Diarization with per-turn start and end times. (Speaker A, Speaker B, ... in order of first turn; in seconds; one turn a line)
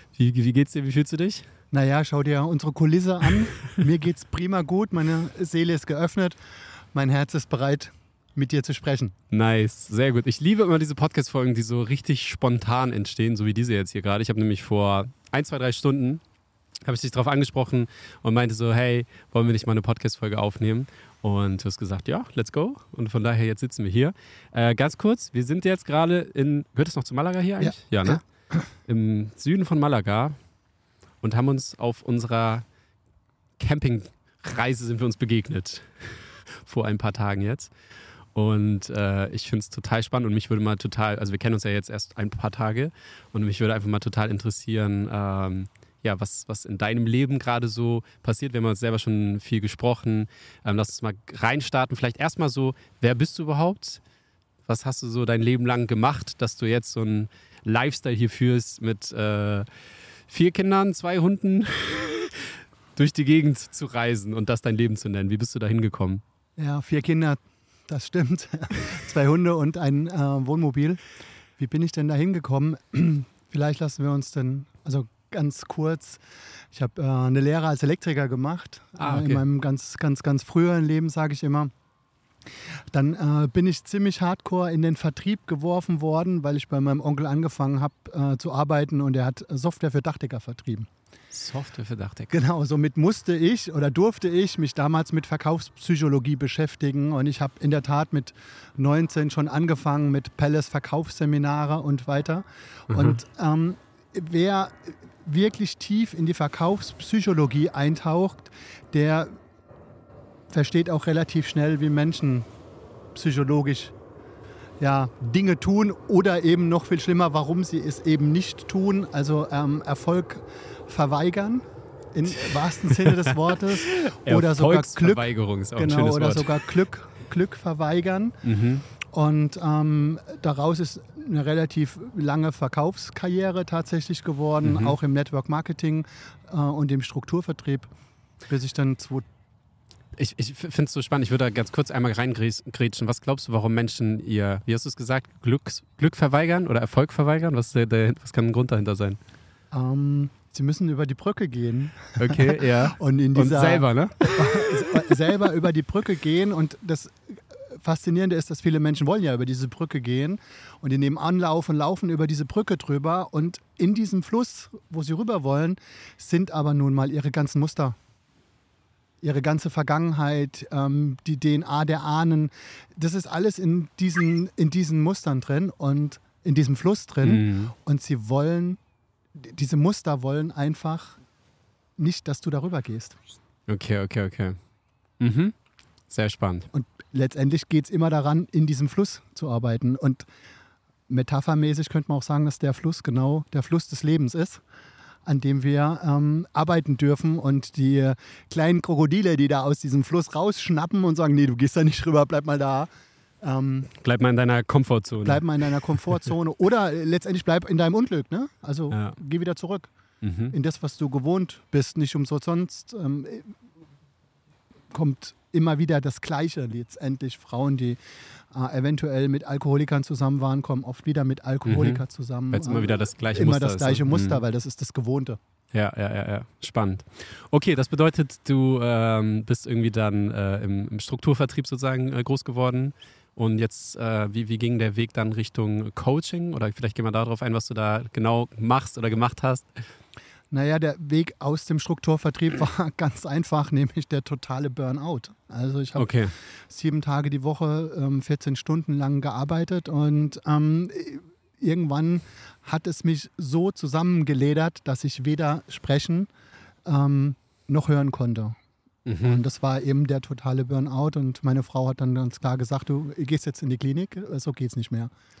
Speaker A: 0.1-1.4
Speaker B: 1.7-6.4
Speaker B: 6.9-9.1
Speaker A: 9.3-16.2
Speaker A: 16.8-28.2
Speaker B: 27.6-28.7
Speaker A: 28.9-30.4
Speaker A: 31.2-32.6
Speaker A: 33.6-37.7
Speaker A: 38.3-54.0
Speaker A: 54.6-59.7
Speaker A: 60.3-66.2
Speaker B: 66.6-71.0
Speaker B: 71.6-76.2
Speaker B: 76.7-81.7
Speaker A: 79.0-79.4
Speaker B: 82.9-90.9
Speaker A: 91.3-92.3
Speaker B: 92.3-109.3
Speaker A: 102.9-103.2
Speaker B: 110.5-112.5
Speaker B: 113.1-113.9
Speaker B: 114.8-128.4
Speaker A: 122.3-126.7
Speaker A: 128.4-128.8
Speaker B: 129.0-137.9
Speaker A: 134.6-135.0
Speaker B: 138.4-139.2
Speaker A: 140.2-149.2
Speaker B: 149.7-168.0
Speaker A: 152.2-154.8
Speaker B: 169.2-178.8
Speaker A: 177.2-177.7
Speaker B: 179.3-181.2
Speaker B: 182.0-183.2
Speaker A: 183.7-184.6
Speaker A: 185.2-185.5
Speaker A: 186.1-186.7
Speaker B: 186.7-190.2
Speaker B: 191.1-194.6
Speaker B: 195.2-202.9
Speaker B: 203.4-203.9
Speaker A: 204.0-205.4
Speaker B: 205.2-209.9
Speaker A: 208.9-209.2
Speaker A: 210.2-210.5
Speaker B: 210.5-213.5
Speaker B: 214.9-218.0
Speaker B: 218.5-225.4
Speaker A: 221.7-224.4
Speaker A: 225.7-239.7
Speaker B: 240.5-246.1
Speaker A: 245.9-246.3
Speaker B: 246.7-256.3
Speaker B: 256.8-258.6
Speaker A: 259.1-259.4
Speaker B: 259.2-265.1